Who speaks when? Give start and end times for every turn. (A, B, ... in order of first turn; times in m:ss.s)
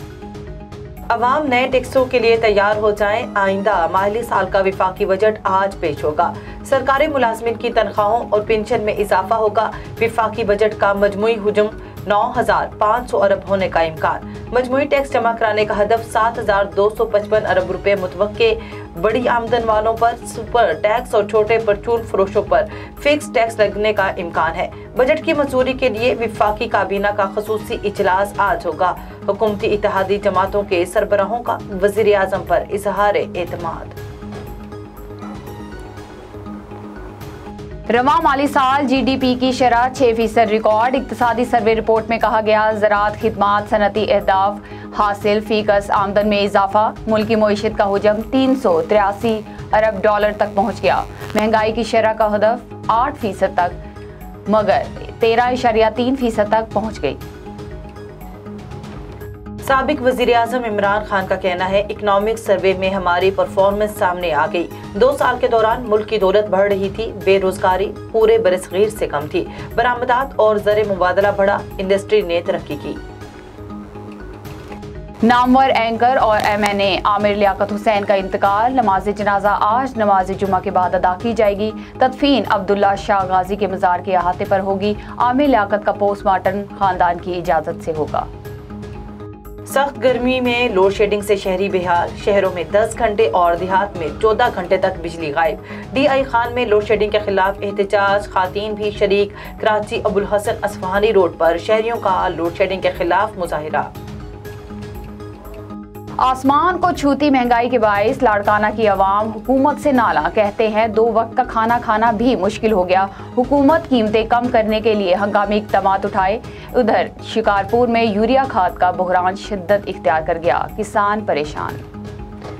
0:01.1-0:34.0 A
0:37.9-0:53.8 B
0:54.5-0:57.2 B
0:59.6-1:13.0 A
1:15.2-1:28.3 B
1:29.7-1:43.9 A
1:46.2-2:01.8 B